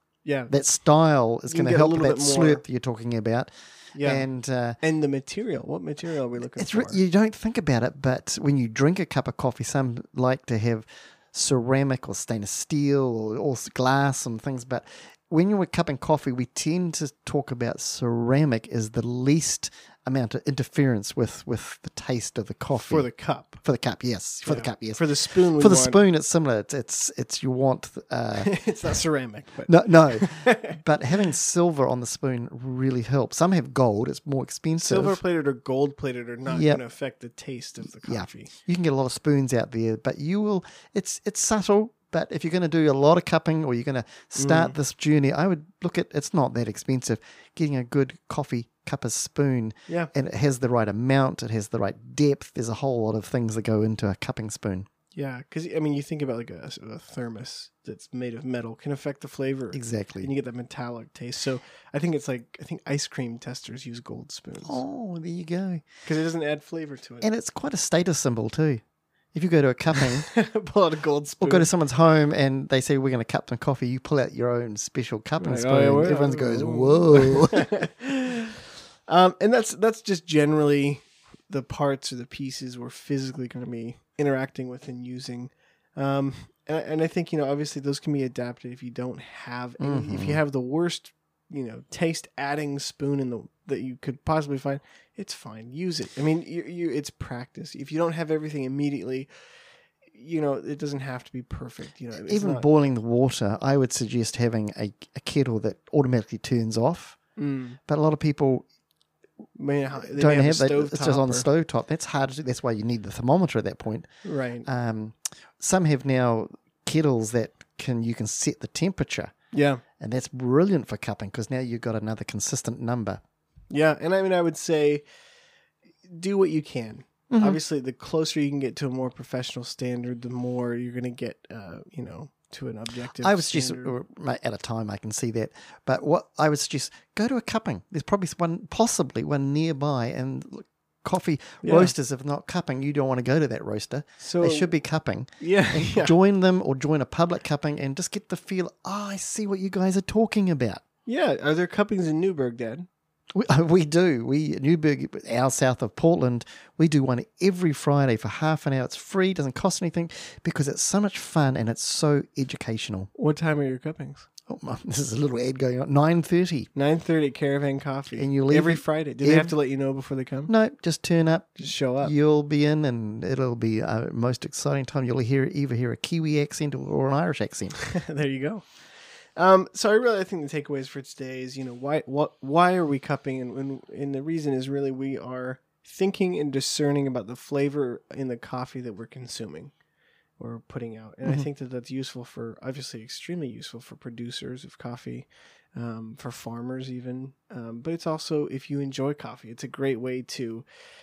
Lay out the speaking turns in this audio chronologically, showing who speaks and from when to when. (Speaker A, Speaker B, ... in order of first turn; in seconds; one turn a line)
Speaker A: 0.2-0.5
Speaker B: 0.5-4.8
Speaker A: 1.5-2.6
Speaker A: 3.9-4.3
Speaker A: 4.8-7.0
Speaker B: 6.6-28.7
Speaker A: 22.8-23.6
Speaker A: 24.4-26.0
Speaker A: 28.4-30.8
Speaker B: 29.7-35.2
Speaker A: 34.8-38.5
Speaker B: 36.5-36.8
Speaker B: 37.9-54.9
Speaker A: 44.4-44.7
Speaker A: 55.1-64.8
Speaker B: 59.7-60.3
Speaker B: 64.6-65.9
Speaker A: 66.0-67.3
Speaker B: 67.2-70.3
Speaker A: 70.3-71.7
Speaker B: 71.4-77.8
Speaker A: 75.4-78.5
Speaker A: 79.1-99.6
Speaker B: 89.8-90.4
Speaker A: 100.1-102.7
Speaker B: 102.2-107.2
Speaker A: 107.4-107.8
Speaker B: 107.9-108.7
Speaker A: 109.6-111.5
Speaker B: 110.0-114.1
Speaker A: 114.2-114.7
Speaker B: 114.6-119.3
Speaker A: 119.5-119.8
Speaker B: 120.0-123.2
Speaker A: 123.7-125.1
Speaker A: 126.1-133.9
Speaker B: 127.3-127.6
Speaker B: 133.2-150.8
Speaker A: 141.6-141.9
Speaker A: 144.2-144.7
Speaker A: 145.4-146.1
Speaker A: 151.1-152.9
Speaker B: 153.3-163.1
Speaker A: 163.2-164.3
Speaker B: 164.5-166.7
Speaker A: 166.8-170.5
Speaker B: 168.1-169.5
Speaker B: 170.5-177.9
Speaker A: 171.6-172.1
Speaker A: 178.0-189.8
Speaker A: 190.4-200.7